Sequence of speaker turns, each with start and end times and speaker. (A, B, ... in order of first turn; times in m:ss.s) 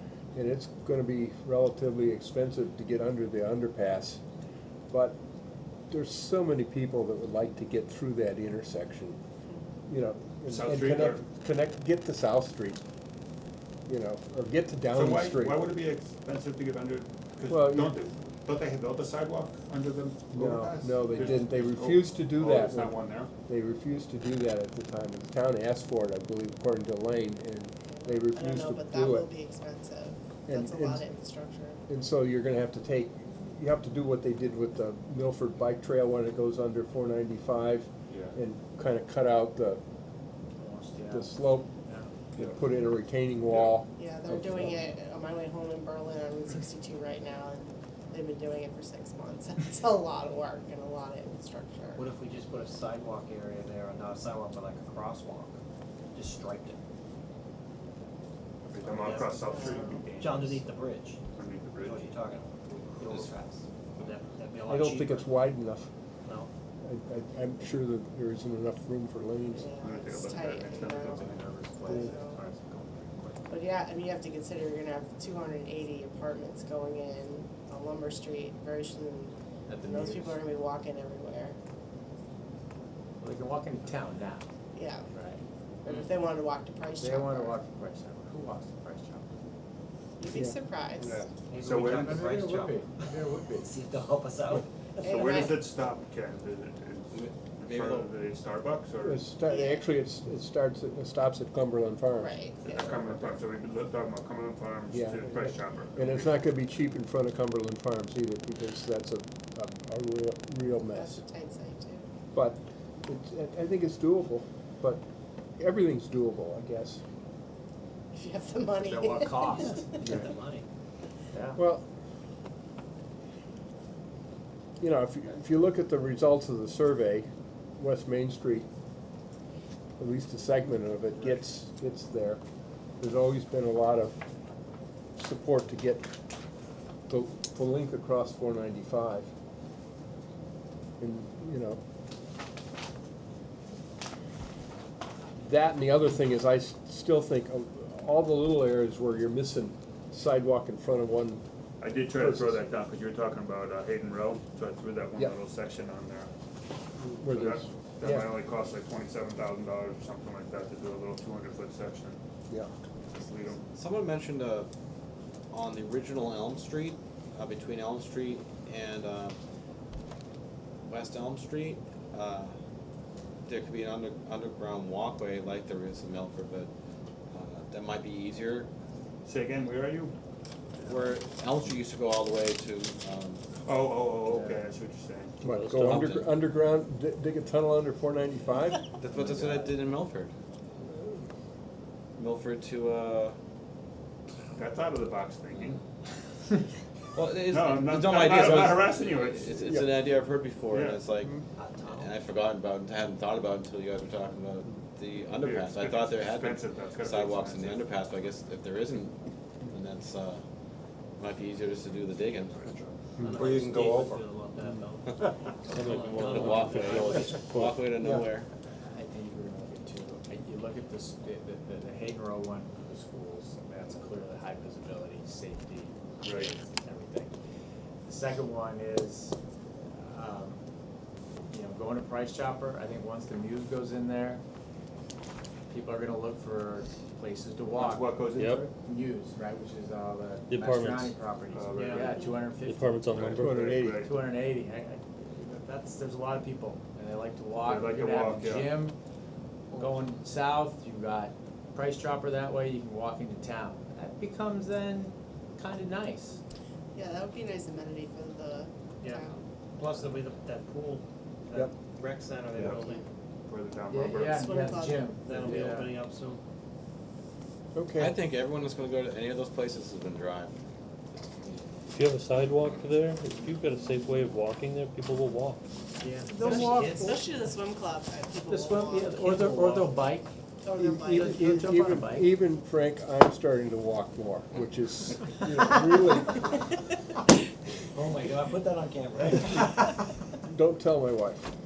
0:00.3-0:04.2 A
0:04.9-0:05.2 A
0:05.9-0:09.2 A
0:09.9-0:12.8 A
0:10.5-0:11.2 B
0:13.9-0:15.6 A
0:14.9-0:23.3 B
0:17.5-0:17.9 A
0:20.3-0:29.3 A
0:28.0-0:31.8 C
0:30.5-0:31.0 A
0:31.9-0:39.8 A
0:38.1-0:38.3 B
0:40.6-0:42.1 D
0:41.1-0:41.7 A
0:42.4-0:44.8 A
0:43.5-0:43.8 B
0:44.0-0:52.1 C
0:52.0-0:55.6 E
0:56.1-0:56.8 E
0:58.6-1:00.6 B
0:58.8-1:01.2 E
0:59.3-1:00.1 C
1:01.2-1:02.2 B
1:01.8-1:05.4 E
1:04.7-1:05.9 A
1:06.2-1:06.5 E
1:06.8-1:09.7 A
1:09.5-1:12.4 C
1:09.8-1:11.9 B
1:11.8-1:13.4 E
1:13.5-1:21.6 C
1:19.7-1:20.4 D
1:23.2-1:24.5 D
1:24.7-1:25.1 C
1:25.1-1:25.4 D
1:25.8-1:27.6 C
1:27.0-1:29.3 D
1:30.2-1:31.3 C
1:30.3-1:30.6 A
1:31.0-1:32.3 B
1:31.5-1:35.0 E
1:31.6-1:33.7 D
1:35.0-1:35.6 C
1:35.0-1:39.3 B
1:37.1-1:38.1 F
1:39.0-1:42.4 A
1:39.4-1:39.9 C
1:42.1-1:43.0 C
1:42.6-1:46.3 B
1:42.9-1:43.4 E
1:44.9-1:51.2 A
1:50.9-1:52.0 C
1:52.3-1:55.0 A
1:55.6-1:57.0 A
1:58.1-2:00.2 C
1:58.9-2:00.6 E
2:01.3-2:01.6 D
2:01.6-2:01.8 A
2:04.8-2:08.7 A
2:10.0-2:12.4 A
2:13.0-2:14.2 A
2:15.2-2:16.1 A
2:17.1-2:19.3 A
2:21.0-2:21.8 A
2:25.4-2:31.4 A
2:31.8-2:36.3 B
2:32.1-2:32.6 A
2:37.0-2:38.3 A
2:37.2-2:42.2 B
2:43.1-2:43.6 B
2:43.7-2:44.7 F
2:45.5-2:49.4 F
2:50.8-2:52.6 F
2:53.5-2:56.7 F
2:57.3-2:58.7 F
2:59.2-3:00.1 B
3:00.8-3:03.4 F
3:03.6-3:05.4 B
3:04.3-3:04.6 D
3:05.4-3:06.4 G
3:05.4-3:08.8 A
3:05.8-3:06.2 F
3:09.0-3:10.3 F
3:12.2-3:13.4 F
3:14.5-3:15.8 B
3:17.1-3:29.2 F
3:17.5-3:19.7 B
3:20.7-3:21.0 B
3:21.6-3:22.1 E
3:25.3-3:27.9 B
3:29.7-3:30.4 F
3:31.2-3:32.6 F
3:32.5-3:32.9 B
3:33.2-3:37.3 E
3:33.4-3:34.1 F
3:35.7-3:37.9 G
3:36.4-3:38.5 F
3:38.9-3:47.3 D
3:46.2-3:46.5 B
3:48.0-3:49.4 D
3:50.0-3:50.6 D
3:51.5-3:54.4 D
3:55.7-4:03.0 D
3:57.7-3:58.6 B
3:58.4-3:58.6 G
4:00.5-4:01.1 G
4:01.5-4:02.0 B
4:01.7-4:02.4 E
4:02.0-4:02.4 C
4:02.6-4:03.7 G
4:03.1-4:04.1 B
4:03.4-4:04.0 A
4:03.8-4:09.0 D
4:07.6-4:08.8 B
4:09.7-4:16.4 D
4:16.9-4:19.4 C
4:19.8-4:23.0 E
4:22.8-4:23.0 C
4:23.5-4:24.5 B
4:23.9-4:25.9 D
4:24.3-4:25.2 C
4:25.2-4:26.4 E
4:27.7-4:28.2 A
4:28.0-4:30.5 F
4:31.9-4:35.6 G
4:36.0-4:37.0 E
4:36.3-4:39.5 C
4:36.4-4:36.7 A
4:36.4-4:37.0 D
4:38.5-4:40.3 D
4:39.3-4:39.9 E
4:40.6-4:41.9 C
4:40.8-4:46.6 A
4:41.1-4:42.3 D
4:47.9-4:50.0 E
4:50.4-4:51.5 A